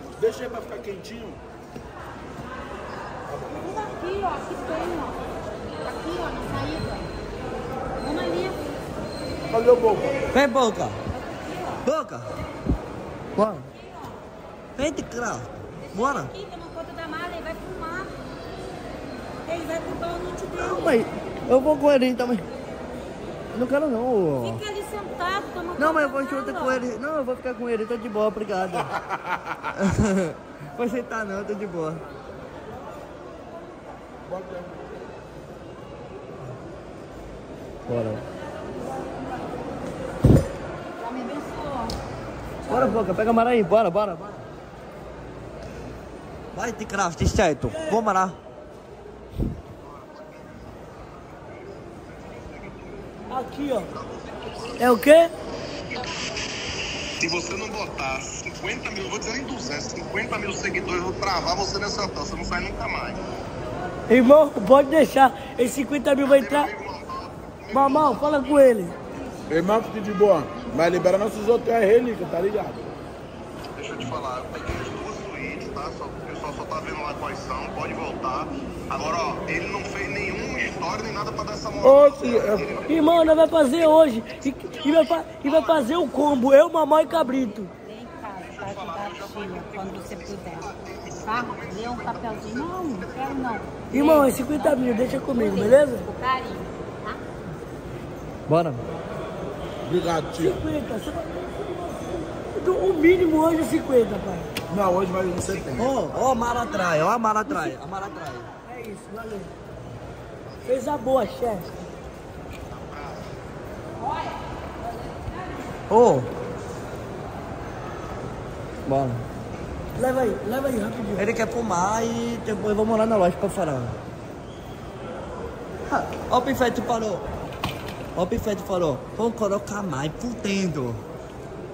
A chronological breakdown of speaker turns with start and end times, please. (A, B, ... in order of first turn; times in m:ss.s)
0:00.2-0:01.4 A
0:03.3-0:03.6 A
0:03.5-0:05.2 B
0:05.8-0:07.1 B
0:08.0-0:08.6 B
0:09.5-0:10.2 A
0:10.3-0:11.0 C
0:11.8-0:12.3 C
0:13.4-0:13.7 C
0:14.8-0:16.3 C
0:16.3-0:18.1 B
0:19.5-0:21.0 B
0:20.6-0:22.5 C
0:23.5-0:24.6 C
0:24.4-0:26.9 B
0:25.8-0:28.9 C
0:28.9-0:29.6 A
0:29.7-0:32.0 C
0:34.3-0:35.1 A
0:37.9-0:38.2 C
0:41.0-0:41.9 B
0:42.7-0:44.4 C
0:46.5-0:48.4 C
0:53.3-0:53.9 D
0:53.9-0:54.8 E
0:54.8-0:55.3 D
0:57.2-1:03.2 E
1:04.1-1:06.7 D
1:06.2-1:08.6 E
1:07.7-1:08.9 D
1:09.5-1:12.9 A
1:13.8-1:22.9 E
1:21.8-1:22.7 A
1:22.9-1:27.7 D
1:24.9-1:25.8 E
1:27.8-1:30.7 B
1:28.4-1:33.2 E
1:31.2-1:37.2 B
1:33.9-1:36.1 D
1:38.5-1:38.8 C
1:39.8-1:40.6 A
1:40.4-1:44.5 D
1:44.7-1:46.0 A
1:45.8-1:48.5 C
1:48.7-1:49.5 D
1:50.6-1:51.7 D
1:52.7-1:53.2 E
1:55.9-1:56.3 C
1:58.9-1:59.2 C
2:00.0-2:01.3 D
2:01.2-2:04.0 C
2:05.9-2:07.3 C
2:08.2-2:11.0 C